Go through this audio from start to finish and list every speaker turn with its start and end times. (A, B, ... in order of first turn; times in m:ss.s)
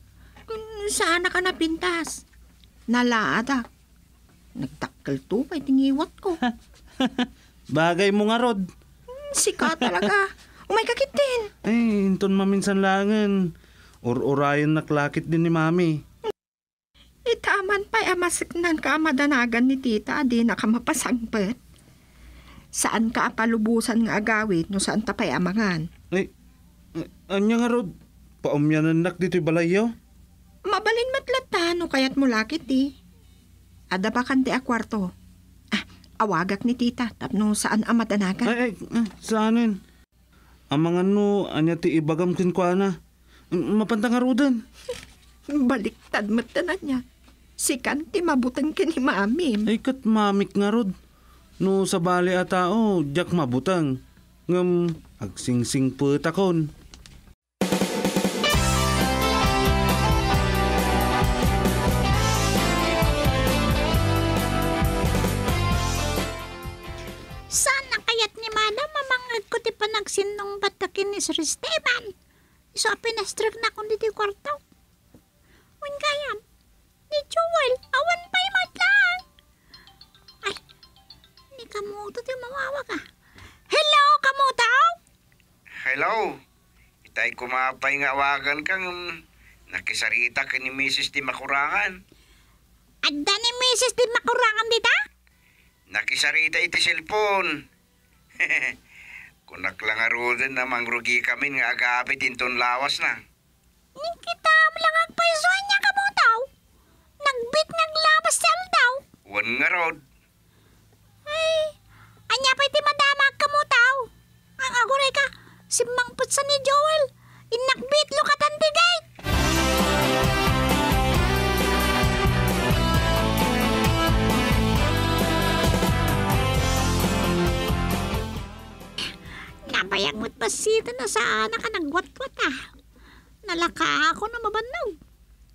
0:00.5-0:02.2 A
0:02.9-0:03.6 A
0:04.6-0:06.4 A
0:07.0-0:08.7 B
0:09.1-0:11.5 A
0:09.6-0:10.0 B
0:11.6-0:13.5 B
0:14.0-0:16.0 B
0:17.3-0:21.6 A
0:22.8-0:25.9 A
0:26.9-0:27.9 B
0:28.4-0:29.9 B
0:30.7-0:32.9 A
0:33.9-0:35.1 A
0:35.7-0:38.5 A
0:38.4-0:39.8 B
0:40.7-0:43.0 B
0:43.5-0:44.6 B
0:45.5-0:47.0 A
0:47.6-0:49.7 A
0:49.6-0:50.9 B
0:51.6-0:56.7 B
1:07.5-1:12.1 C
1:12.7-1:14.6 C
1:15.8-1:16.4 C
1:17.1-1:19.2 C
1:21.5-1:23.0 C
1:23.7-1:25.0 C
1:25.8-1:26.4 D
1:27.0-1:32.0 D
1:33.0-1:35.0 C
1:35.9-1:37.6 D
1:38.4-1:38.7 D
1:39.5-1:43.2 D
1:44.0-1:46.5 C
1:47.2-1:49.0 C
1:49.3-1:50.0 D
1:51.3-1:51.7 C
1:52.3-1:59.0 C
2:09.7-2:12.6 C
2:13.5-2:15.0 C